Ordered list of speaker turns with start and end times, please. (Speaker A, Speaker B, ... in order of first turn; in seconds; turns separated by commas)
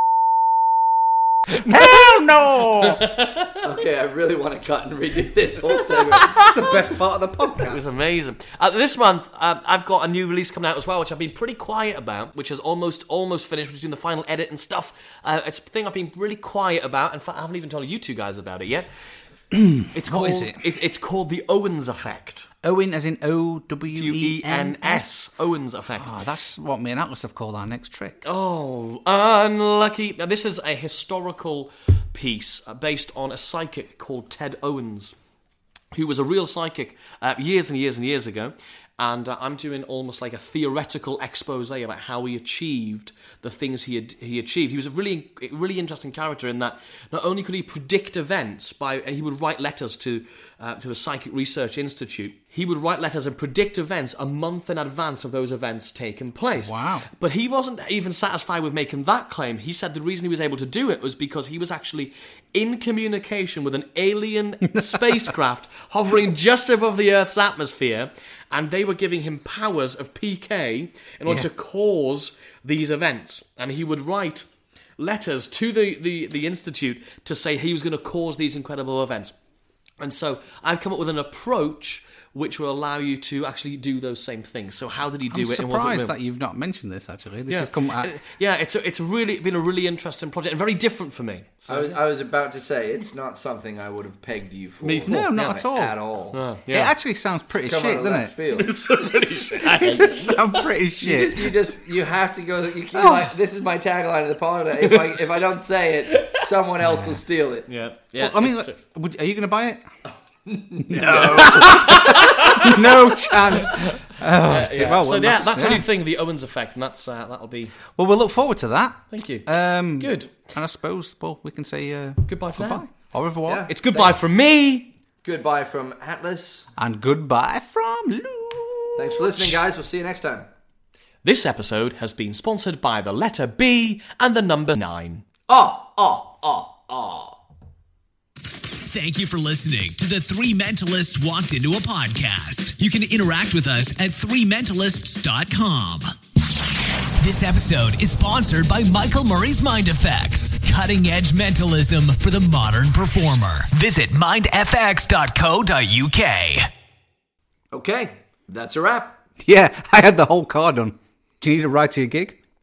Speaker A: 1.6-3.0, Speaker B: 2.6-3.6, Speaker C: 3.6-6.7, Speaker A: 6.2-7.9, Speaker B: 7.6-18.9, Speaker A: 19.5-20.6, Speaker B: 19.9-22.5, Speaker A: 22.6-25.1, Speaker B: 23.9-26.1, Speaker A: 26.0-28.2, Speaker B: 28.2-35.1, Speaker B: 35.9-74.5, Speaker A: 56.6-57.1, Speaker A: 64.8-65.2, Speaker B: 75.0-79.3, Speaker B: 80.0-86.2, Speaker A: 85.3-88.1, Speaker B: 87.5-91.9, Speaker C: 91.7-96.4, Speaker B: 94.8-95.6, Speaker A: 95.1-96.0, Speaker B: 96.3-96.9, Speaker A: 96.7-98.3, Speaker C: 97.6-98.8, Speaker B: 98.5-100.7, Speaker A: 99.6-101.6, Speaker C: 101.0-107.7, Speaker A: 103.0-103.3, Speaker B: 104.8-105.2, Speaker B: 106.1-106.4, Speaker A: 106.8-107.2, Speaker B: 107.7-108.8, Speaker A: 108.2-109.8, Speaker C: 110.1-112.2, Speaker A: 110.8-115.9, Speaker B: 111.3-112.9, Speaker B: 113.5-117.8, Speaker C: 114.7-115.0, Speaker A: 118.0-123.7, Speaker B: 119.1-120.3, Speaker B: 122.3-122.9, Speaker C: 123.5-124.2, Speaker B: 123.7-124.9, Speaker C: 125.2-126.7, Speaker A: 126.8-129.6, Speaker C: 128.9-130.5, Speaker B: 131.2-135.2, Speaker C: 135.5-137.4, Speaker D: 138.8-146.1, Speaker D: 147.2-156.7, Speaker C: 157.7-159.2, Speaker A: 159.4-162.4